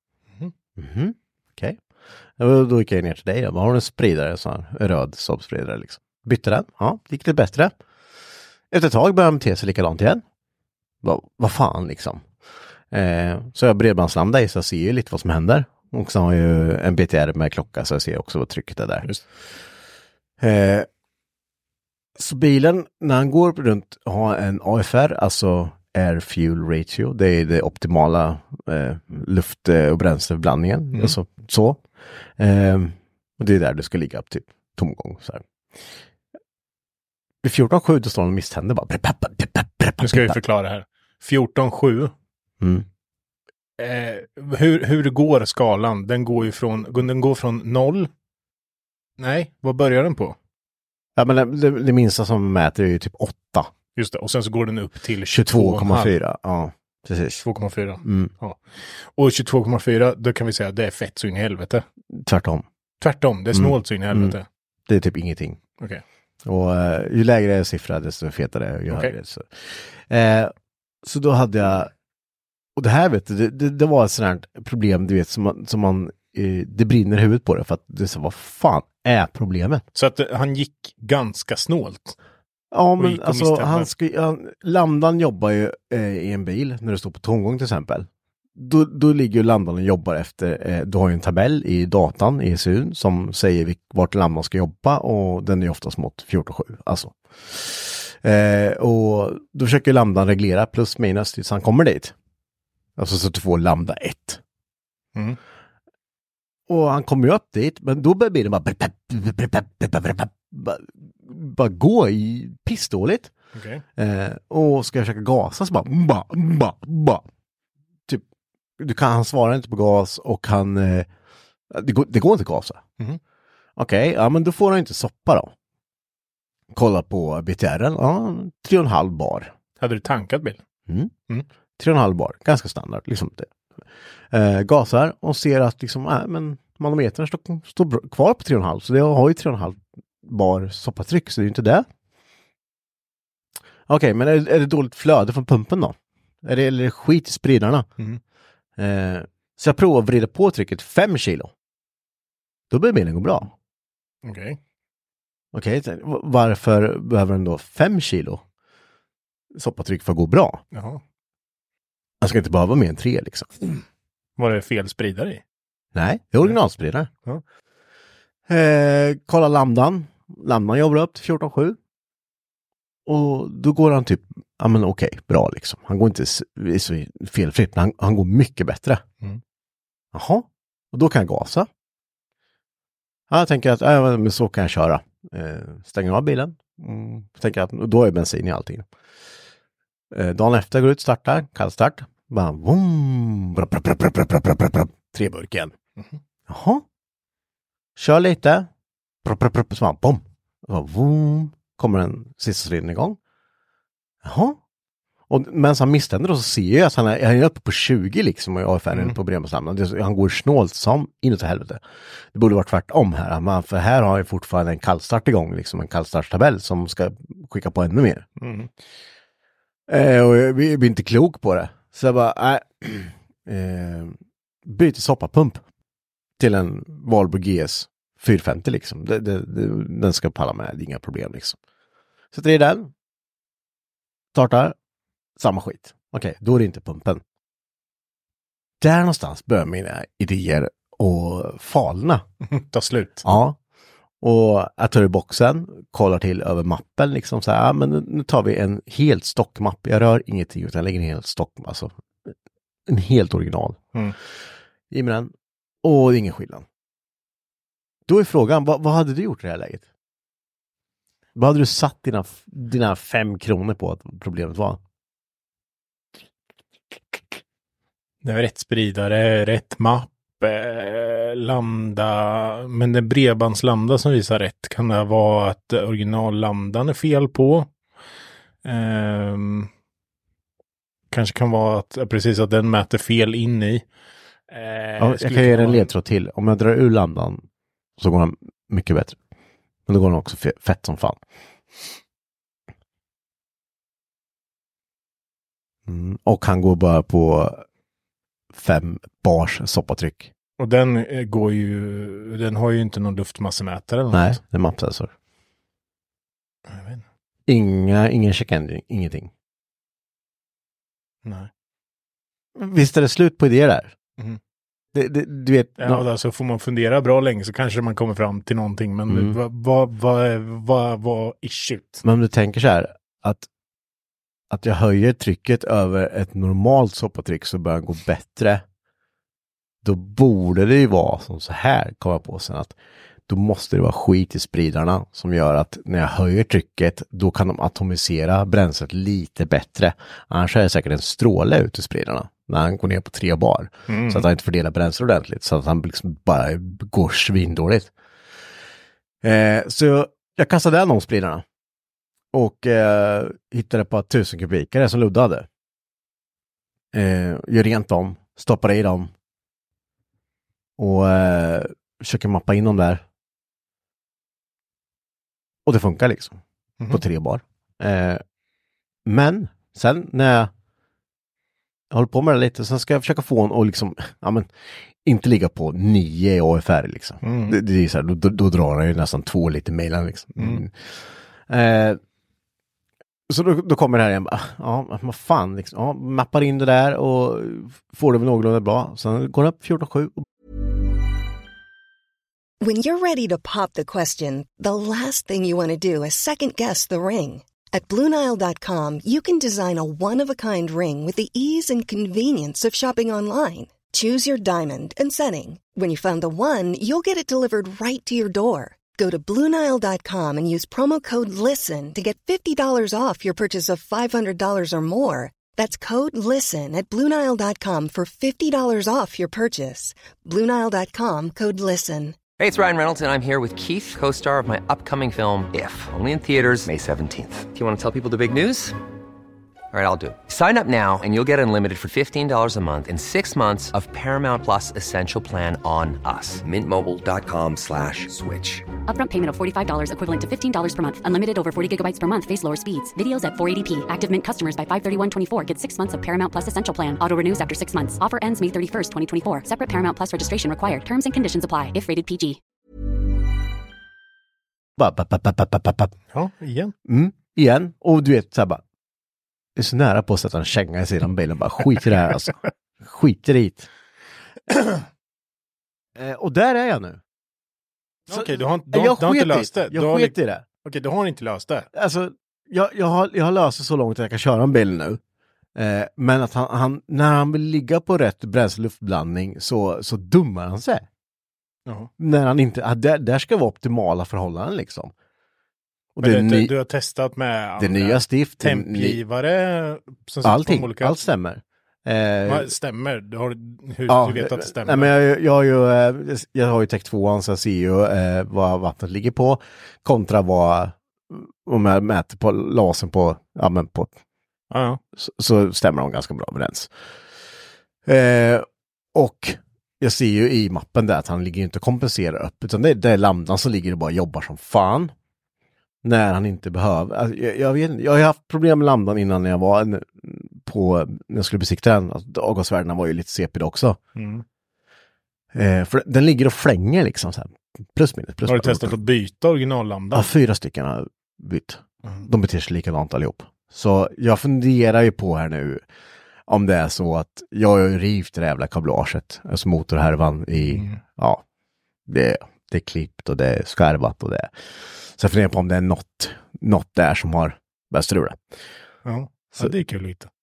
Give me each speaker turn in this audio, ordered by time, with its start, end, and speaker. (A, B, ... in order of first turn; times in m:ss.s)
0:00.8-0:01.8 A
0:02.4-0:07.7 A
0:08.7-0:10.2 A
0:11.0-0:12.2 A
0:12.9-0:19.1 A
0:20.4-0:20.9 A
0:22.2-0:31.8 A
0:32.4-0:35.4 A
0:37.4-0:40.4 A
0:40.0-0:42.1 B
0:42.6-0:42.8 A
0:43.8-0:48.1 B
0:49.2-0:50.4 B
0:51.2-0:53.7 A
0:54.0-0:56.2 B
0:55.3-0:57.4 A
0:57.3-0:58.6 B
0:58.0-0:58.3 A
0:59.2-1:01.8 B
1:02.1-1:02.6 A
1:03.0-1:04.4 B
1:03.5-1:04.4 A
1:04.9-1:05.6 A
1:06.4-1:10.5 A
1:11.0-1:11.9 A
1:12.8-1:19.8 A
1:19.9-1:22.2 B
1:22.7-1:42.1 A
1:23.0-1:23.9 B
1:43.0-1:44.4 A
1:46.7-1:53.3 A
1:53.5-1:53.8 B
1:54.0-1:57.2 A
1:58.8-2:01.1 A
2:01.7-2:02.8 A
2:03.8-2:05.5 A
2:06.7-2:09.5 A
2:09.8-2:10.6 B
2:11.8-2:13.5 A
2:14.3-2:21.9 A
2:23.9-2:27.9 A
2:28.8-2:31.5 A
2:32.7-2:33.5 A
2:34.2-2:34.6 B
2:35.5-2:38.4 A
2:39.5-2:40.6 A
2:40.7-2:41.0 B
2:42.2-2:43.6 A
2:44.4-2:45.4 B
2:45.9-2:47.1 A
2:48.5-2:51.8 A
2:53.0-2:59.0 A
3:00.1-3:01.7 A
3:03.3-3:08.8 A
3:10.1-3:15.7 A
3:16.5-3:16.8 A
3:18.0-3:18.7 A
3:19.2-3:23.2 A
3:24.2-3:24.6 A
3:25.3-3:31.8 A
3:32.3-3:38.2 A
3:38.4-3:38.7 B
3:39.9-3:45.6 A
3:46.4-3:51.6 A
3:52.3-3:52.9 A
3:54.3-3:54.7 A
3:55.4-3:57.2 A
3:58.8-4:02.2 A
4:02.4-4:03.2 B
4:03.2-4:03.6 A
4:04.2-4:11.9 A
4:12.9-4:13.8 A
4:14.9-4:15.3 A
4:15.8-4:16.6 A
4:18.1-4:19.8 A
4:21.3-4:24.8 A
4:28.2-4:37.7 B
4:38.6-4:39.7 B
4:41.1-4:43.8 B
4:44.5-4:45.9 B
4:45.0-4:47.4 A
4:48.0-4:49.2 A
4:49.9-4:51.2 A
4:55.9-4:57.6 A
4:58.5-5:00.3 A
5:00.6-5:04.4 B
5:04.1-5:05.1 A
5:06.7-5:07.0 B
5:07.5-5:09.3 A
5:12.6-5:13.9 A
5:14.9-5:16.0 A
5:15.8-5:22.0 B
5:19.1-5:19.4 A
5:22.0-5:23.5 A
5:24.5-5:28.6 A
5:29.8-5:32.7 A
5:33.3-5:47.9 A
5:43.9-5:44.2 B
5:49.2-5:51.4 A
5:52.3-5:55.5 A
5:56.9-5:59.1 A
6:00.8-6:03.0 A
6:05.6-6:08.2 A
6:09.0-6:10.5 A
6:11.9-6:14.5 A
6:15.0-6:20.7 A
6:17.2-6:17.6 B
6:20.4-6:20.6 B
6:21.5-6:22.0 A
6:23.3-6:30.2 A
6:32.6-7:02.2 C
7:02.4-7:08.8 D
7:09.7-7:18.6 D
7:18.9-7:32.4 E
7:34.8-7:36.0 A
7:36.1-7:36.7 B
7:36.8-7:38.6 A
7:39.6-7:43.7 A
7:46.0-7:47.0 A
7:48.1-7:50.4 A
7:48.1-7:51.7 B
7:51.7-7:55.0 A
7:55.6-8:00.8 A
8:01.6-8:01.9 B
8:02.0-8:04.9 A
8:06.0-8:06.5 A
8:06.0-8:11.0 B
8:07.6-8:09.0 A
8:10.2-8:12.5 A
8:12.2-8:14.9 B
8:13.9-8:24.0 A
8:24.5-8:24.8 B
8:25.0-8:26.7 A
8:27.8-8:34.9 A
8:35.8-8:43.8 A
8:44.0-8:44.2 B
8:45.3-8:48.8 A
8:48.3-8:50.1 B
8:49.9-8:55.6 A
8:56.3-9:01.2 A
9:00.5-9:00.8 B
9:01.9-9:04.3 A
9:04.9-9:08.2 A
9:08.8-9:10.1 B